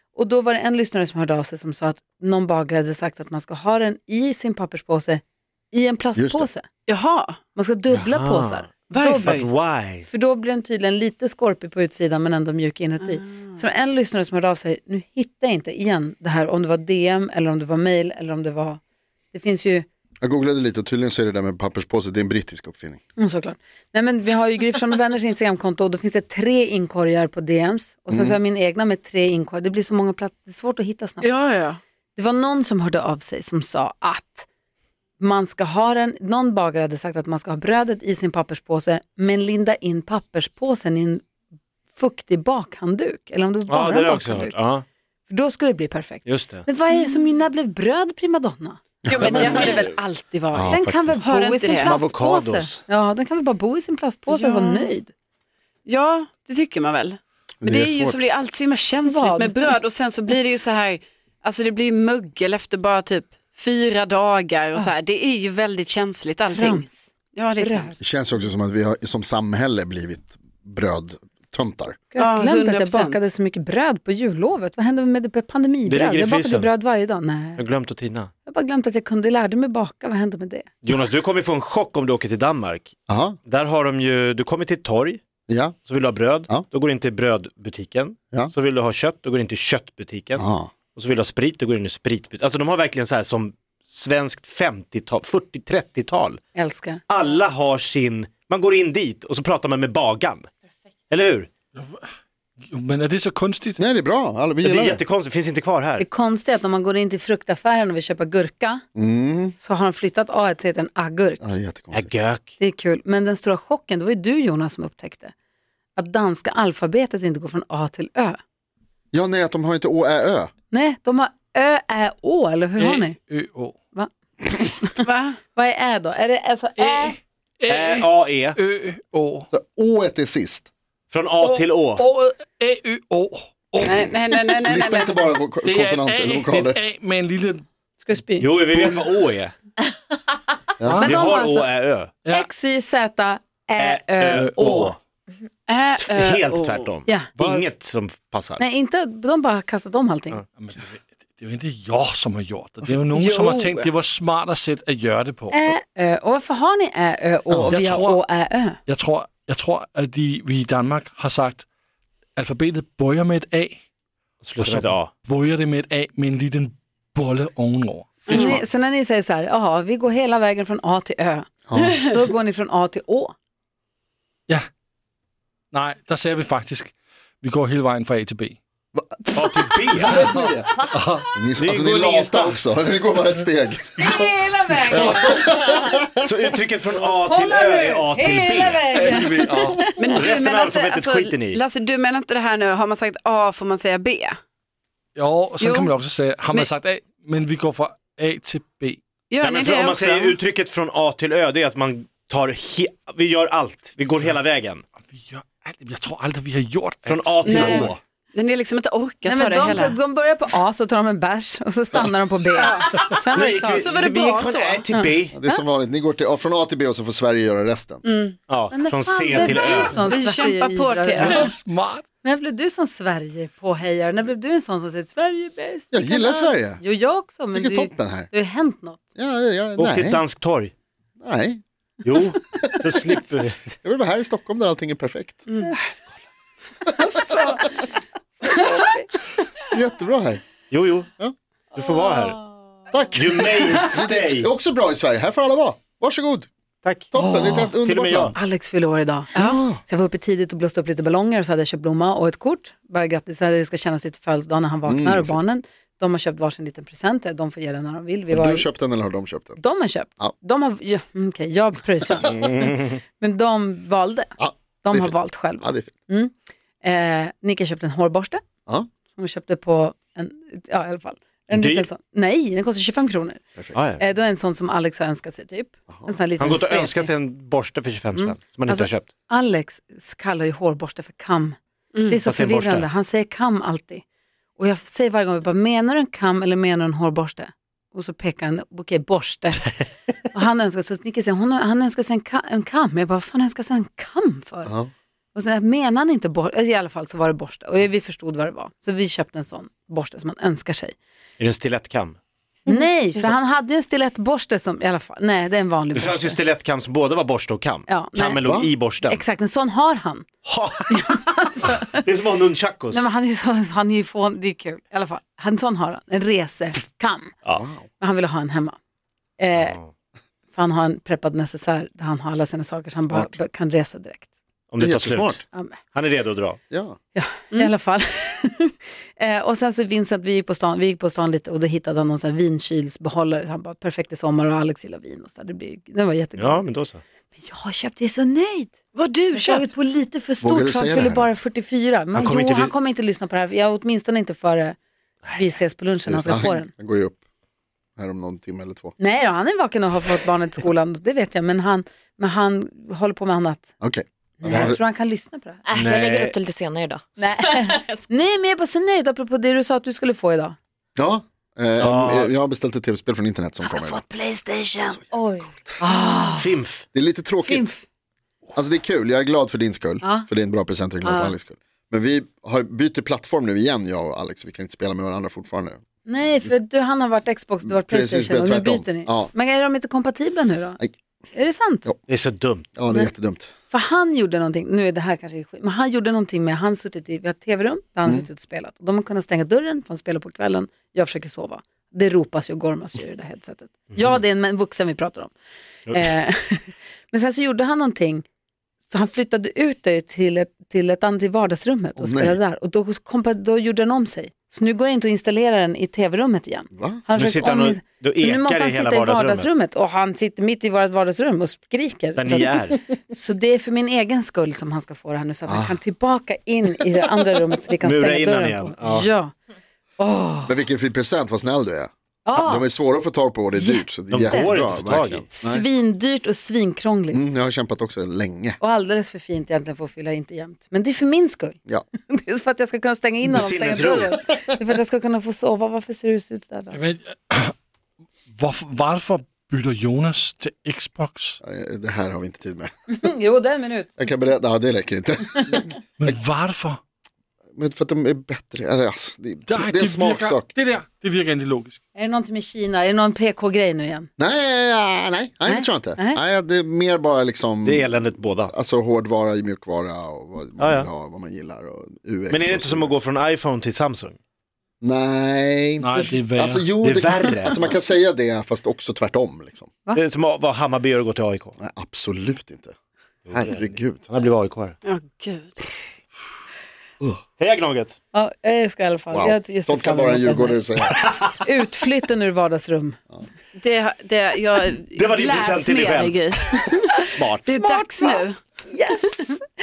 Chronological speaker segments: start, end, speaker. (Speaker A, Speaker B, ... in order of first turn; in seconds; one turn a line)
Speaker A: 0.1-6.7
Speaker B: 6.2-6.5
Speaker C: 6.9-7.4
Speaker A: 7.5-9.4
Speaker D: 7.9-10.1
Speaker C: 8.9-9.5
Speaker A: 10.0-18.8
Speaker C: 13.0-13.6
Speaker A: 19.3-19.9
Speaker B: 20.2-23.0
Speaker A: 23.2-31.3
Speaker B: 28.1-28.4
Speaker C: 31.2-31.8
Speaker A: 32.1-34.5
Speaker A: 35.2-41.2
Speaker A: 41.9-44.5
Speaker D: 43.7-44.8
Speaker A: 45.3-49.8
Speaker D: 46.2-46.6
Speaker C: 46.9-47.2
Speaker B: 49.0-49.9
Speaker C: 49.1-52.0
Speaker D: 49.3-49.9
Speaker B: 50.5-51.2
Speaker A: 50.7-55.1
Speaker D: 51.8-52.8
Speaker C: 54.3-54.9
Speaker C: 55.9-68.0
Speaker B: 57.6-58.2
Speaker A: 59.0-59.7
Speaker A: 66.5-67.9
Speaker B: 68.0-72.0
Speaker A: 72.1-77.6
Speaker C: 72.2-73.2
Speaker D: 75.9-76.7
Speaker D: 77.6-78.3
Speaker A: 78.5-80.7
Speaker D: 80.8-85.2
Speaker B: 83.1-83.4
Speaker B: 85.5-85.8
Speaker D: 85.8-96.4
Speaker B: 90.4-90.7
Speaker A: 96.5-97.0
Speaker D: 97.1-100.5
Speaker D: 101.1-101.5
Speaker E: 102.7-103.8
Speaker B: 103.8-105.0
Speaker D: 104.6-106.1
Speaker A: 106.0-108.8
Speaker B: 108.9-109.5
Speaker A: 109.6-111.4
Speaker B: 111.4-112.1
Speaker D: 111.9-112.5
Speaker A: 112.6-115.3
Speaker A: 116.0-118.4
Speaker B: 119.1-120.5
Speaker A: 120.7-123.2
Speaker E: 122.8-123.8
Speaker A: 123.9-127.2
Speaker C: 125.0-125.4
Speaker E: 126.8-129.5
Speaker D: 127.7-128.6
Speaker B: 129.5-130.7
Speaker D: 131.1-132.0
Speaker E: 131.4-134.5
Speaker C: 133.8-135.2
Speaker B: 134.6-136.8
Speaker E: 135.6-137.6
Speaker A: 138.0-138.5
Speaker D: 138.4-139.6
Speaker B: 140.8-141.1
Speaker E: 140.9-141.2
Speaker A: 141.0-141.7
Speaker D: 141.0-142.1
Speaker A: 142.3-145.0
Speaker D: 143.8-144.9
Speaker E: 144.3-145.0
Speaker C: 145.7-146.9
Speaker D: 146.0-148.6
Speaker A: 147.1-147.7
Speaker A: 148.6-150.4
Speaker E: 150.6-155.7
Speaker A: 155.5-158.8
Speaker B: 157.5-157.8
Speaker E: 157.7-158.2
Speaker E: 158.9-161.7
Speaker E: 162.4-163.8
Speaker D: 164.4-165.1
Speaker E: 164.6-168.7
Speaker C: 168.2-168.6
Speaker A: 168.3-173.3
Speaker B: 171.7-172.0
Speaker E: 175.7-178.6
Speaker D: 179.3-180.2
Speaker B: 180.0-184.2
Speaker A: 180.1-180.5
Speaker E: 180.9-181.3
Speaker D: 181.6-182.6
Speaker A: 184.0-186.1
Speaker B: 184.9-185.9
Speaker E: 184.9-185.4
Speaker D: 186.2-189.0
Speaker A: 187.2-190.2
Speaker E: 188.9-189.9
Speaker C: 190.0-194.4
Speaker D: 190.1-191.6
Speaker E: 195.2-199.0
Speaker C: 195.6-196.0
Speaker C: 199.3-200.4
Speaker D: 199.4-204.8
Speaker E: 205.1-207.9
Speaker D: 207.1-208.0
Speaker C: 207.5-210.0
Speaker A: 209.2-213.9
Speaker C: 212.6-214.9
Speaker D: 213.3-215.3
Speaker B: 215.3-218.0
Speaker C: 218.0-218.4
Speaker D: 218.5-220.0
Speaker A: 218.7-221.5
Speaker C: 219.5-221.5
Speaker E: 221.2-222.0
Speaker A: 222.2-229.0
Speaker B: 225.9-226.8
Speaker B: 227.5-228.3
Speaker B: 229.2-230.2
Speaker D: 229.8-230.7
Speaker B: 231.2-231.6
Speaker D: 232.0-233.8
Speaker B: 232.5-233.2
Speaker B: 233.8-235.5
Speaker C: 235.5-235.7
Speaker A: 237.0-237.7
Speaker C: 237.1-237.6
Speaker A: 238.4-239.1
Speaker B: 239.6-240.4
Speaker D: 240.7-241.1
Speaker D: 241.7-242.4
Speaker B: 242.9-246.5
Speaker D: 243.1-244.5
Speaker D: 246.8-247.1
Speaker B: 247.1-248.4
Speaker A: 247.2-247.8
Speaker D: 247.8-248.3
Speaker A: 248.3-258.7
Speaker B: 249.4-249.8
Speaker B: 254.9-255.4
Speaker B: 258.3-259.6
Speaker A: 259.6-268.4
Speaker D: 262.2-263.0
Speaker B: 264.4-265.9
Speaker A: 269.1-273.4
Speaker D: 271.5-271.9
Speaker D: 273.8-274.0
Speaker A: 274.0-277.1
Speaker D: 276.4-279.1
Speaker A: 278.1-281.6
Speaker C: 281.9-282.2
Speaker A: 282.1-284.0
Speaker D: 282.2-282.9
Speaker A: 284.6-289.7
Speaker A: 290.3-294.7
Speaker B: 294.6-294.9
Speaker A: 295.3-301.0
Speaker D: 301.4-302.2
Speaker A: 302.7-306.4
Speaker D: 305.9-309.2
Speaker A: 307.9-310.3
Speaker B: 308.4-308.7
Speaker D: 310.5-311.2
Speaker A: 310.9-312.1
Speaker D: 312.0-313.1
Speaker A: 312.9-317.3
Speaker B: 317.5-317.9
Speaker A: 318.0-318.8
Speaker A: 319.4-319.8
Speaker D: 319.6-319.9
Speaker A: 320.5-324.3
Speaker D: 324.7-326.6
Speaker B: 324.8-325.4
Speaker A: 325.5-325.8
Speaker B: 326.7-327.0
Speaker A: 327.1-336.6
Speaker D: 336.4-337.0
Speaker A: 337.4-344.8
Speaker C: 338.9-339.6
Speaker B: 340.4-341.3
Speaker D: 342.1-342.7
Speaker A: 345.4-346.7
Speaker B: 346.1-347.2
Speaker B: 348.0-348.9
Speaker A: 349.0-353.7
Speaker B: 353.8-354.8
Speaker A: 354.4-355.6
Speaker D: 354.5-354.8
Speaker F: 355.6-358.0
Speaker D: 355.7-356.4
Speaker A: 357.2-360.6
Speaker B: 361.0-364.0
Speaker D: 361.8-362.3
Speaker A: 363.6-366.5
Speaker B: 365.0-365.8
Speaker D: 366.3-366.9
Speaker B: 366.9-367.7
Speaker A: 367.4-367.9
Speaker B: 368.5-375.8
Speaker A: 370.0-370.3
Speaker A: 371.0-371.4
Speaker A: 376.0-380.8
Speaker B: 377.7-379.3
Speaker A: 381.3-381.9
Speaker D: 382.1-382.7
Speaker B: 382.8-383.5
Speaker A: 383.7-395.3
Speaker A: 395.9-398.2
Speaker A: 398.9-419.4
Speaker B: 402.0-402.4
Speaker B: 406.8-407.0
Speaker D: 407.1-409.5
Speaker D: 412.1-412.8
Speaker B: 415.5-415.8
Speaker D: 417.8-419.1
Speaker A: 420.0-420.6
Speaker B: 420.5-425.6
Speaker A: 422.2-422.7
Speaker A: 423.5-424.5
Speaker D: 424.1-425.2
Speaker A: 425.4-427.2
Speaker B: 427.1-428.6
Speaker A: 428.6-436.8
Speaker D: 433.3-434.2
Speaker E: 436.7-437.5
Speaker E: 438.3-441.4
Speaker B: 441.4-442.7
Speaker A: 442.9-444.0
Speaker B: 444.0-446.2
Speaker E: 446.0-446.8
Speaker B: 447.5-450.5
Speaker E: 449.5-451.8
Speaker A: 451.9-454.1
Speaker B: 454.2-463.0
Speaker A: 455.5-456.2
Speaker D: 457.6-458.5
Speaker D: 460.6-460.9
Speaker D: 462.3-464.2
Speaker B: 464.8-469.7
Speaker E: 465.8-467.1
Speaker D: 466.9-467.8
Speaker D: 469.9-471.5
Speaker B: 471.6-472.7
Speaker D: 473.2-474.8
Speaker B: 473.3-474.0
Speaker C: 474.8-475.7
Speaker D: 477.4-478.0
Speaker A: 478.1-480.6
Speaker B: 479.1-481.0
Speaker D: 480.8-481.3
Speaker A: 481.4-483.0
Speaker C: 483.6-488.4
Speaker D: 485.0-486.3
Speaker A: 486.8-489.4
Speaker D: 487.1-487.5
Speaker C: 489.0-489.3